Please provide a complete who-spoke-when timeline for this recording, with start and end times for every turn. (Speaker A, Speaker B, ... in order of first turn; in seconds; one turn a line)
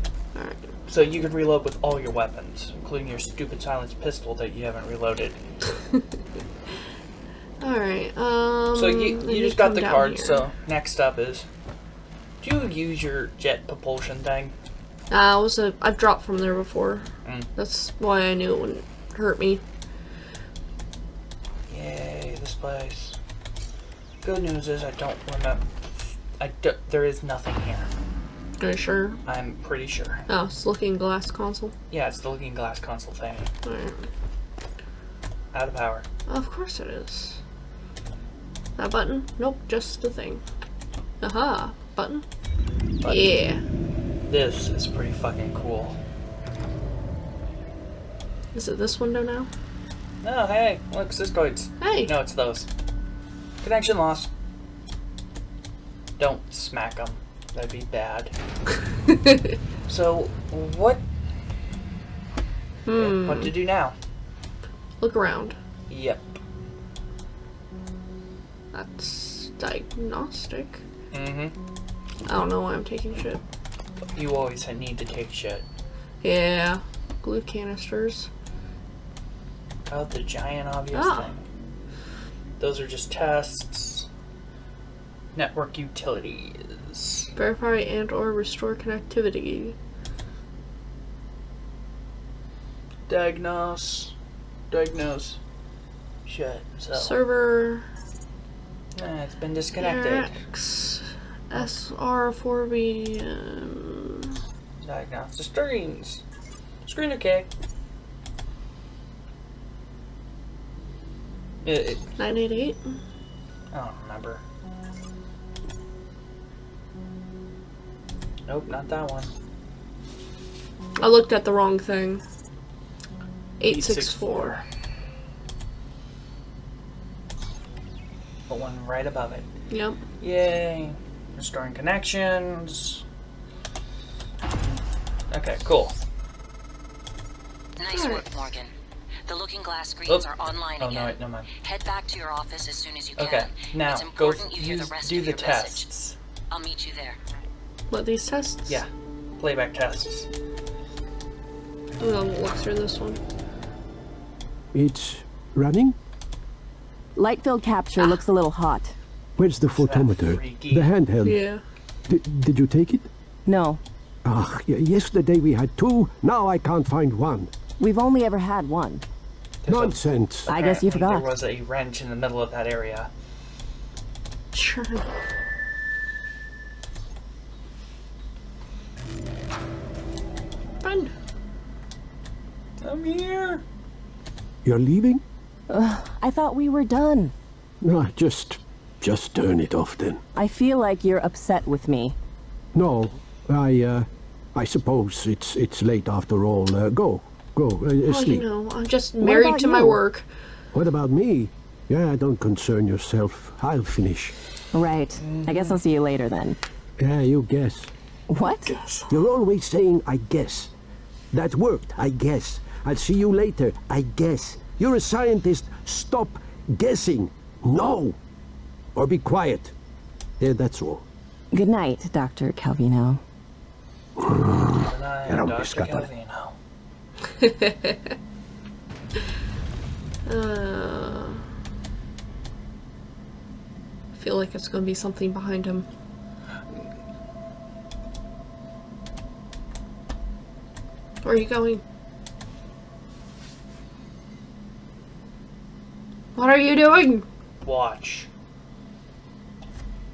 Speaker A: 0.3-0.7
Speaker B: 0.9-5.4
Speaker A: 7.6-10.4
Speaker B: 8.7-11.5
Speaker B: 12.4-14.6
Speaker A: 15.1-19.6
Speaker B: 17.2-17.5
Speaker B: 21.7-23.2
Speaker B: 24.2-27.9
Speaker A: 28.6-29.2
Speaker B: 29.3-30.2
Speaker A: 30.3-31.7
Speaker B: 31.9-33.5
Speaker A: 33.6-34.1
Speaker B: 35.5-36.1
Speaker A: 36.3-37.4
Speaker A: 38.8-40.4
Speaker A: 41.2-42.2
Speaker B: 43.0-43.3
Speaker A: 43.0-43.6
Speaker B: 44.3-46.0
Speaker A: 48.5-49.5
Speaker B: 50.2-52.7
Speaker A: 51.8-52.1
Speaker B: 53.6-54.3
Speaker B: 56.2-58.3
Speaker B: 59.9-61.0
Speaker A: 62.9-63.5
Speaker B: 62.9-64.0
Speaker A: 65.0-65.6
Speaker B: 65.9-66.4
Speaker A: 68.7-70.8
Speaker B: 71.1-71.6
Speaker A: 72.3-73.4
Speaker B: 74.2-75.7
Speaker A: 76.2-78.3
Speaker B: 79.9-81.5
Speaker A: 80.9-81.3
Speaker B: 82.6-84.1
Speaker B: 85.3-87.3
Speaker A: 87.4-89.8
Speaker B: 93.1-94.2
Speaker B: 94.7-95.4
Speaker B: 96.3-97.2
Speaker A: 96.9-97.9
Speaker B: 99.0-100.4
Speaker A: 99.8-104.4
Speaker B: 104.8-106.2
Speaker B: 106.8-107.5
Speaker B: 111.6-112.1
Speaker A: 112.2-113.0
Speaker B: 113.7-114.4
Speaker B: 118.5-119.3
Speaker A: 121.0-122.2
Speaker A: 123.6-124.6
Speaker B: 123.6-124.7
Speaker B: 128.5-129.5
Speaker A: 129.7-130.0
Speaker B: 130.2-133.0
Speaker B: 134.6-136.0
Speaker C: 137.8-138.7
Speaker A: 137.9-138.2
Speaker C: 139.3-145.9
Speaker B: 140.1-141.5
Speaker B: 143.2-146.2
Speaker C: 146.5-147.2
Speaker A: 147.9-148.8
Speaker B: 148.7-150.3
Speaker A: 152.0-153.2
Speaker D: 154.7-156.0
Speaker E: 157.2-158.9
Speaker D: 159.4-161.4
Speaker B: 159.7-160.9
Speaker A: 161.2-161.6
Speaker D: 162.1-163.1
Speaker E: 163.5-163.8
Speaker D: 164.2-167.5
Speaker E: 167.8-169.0
Speaker B: 169.6-173.1
Speaker D: 169.7-170.5
Speaker E: 170.5-171.3
Speaker A: 174.5-175.1
Speaker A: 180.8-181.1
Speaker B: 182.8-183.6
Speaker D: 184.6-185.2
Speaker E: 185.7-187.3
Speaker D: 187.8-190.2
Speaker E: 190.3-192.2
Speaker D: 192.7-198.5
Speaker A: 198.0-200.3
Speaker E: 199.2-200.0
Speaker D: 200.7-204.3
Speaker E: 204.7-206.6
Speaker B: 205.2-205.8
Speaker D: 207.0-207.9
Speaker E: 208.3-208.8
Speaker A: 208.7-209.1
Speaker D: 209.1-210.7
Speaker D: 211.3-218.2
Speaker D: 218.9-219.7
Speaker D: 220.4-221.1
Speaker E: 221.5-223.2
Speaker D: 224.2-226.1
Speaker B: 224.8-226.6
Speaker A: 227.4-227.9
Speaker A: 230.3-231.5
Speaker A: 234.2-235.9
Speaker A: 241.2-241.8
Speaker A: 246.4-247.3
Speaker B: 247.6-248.3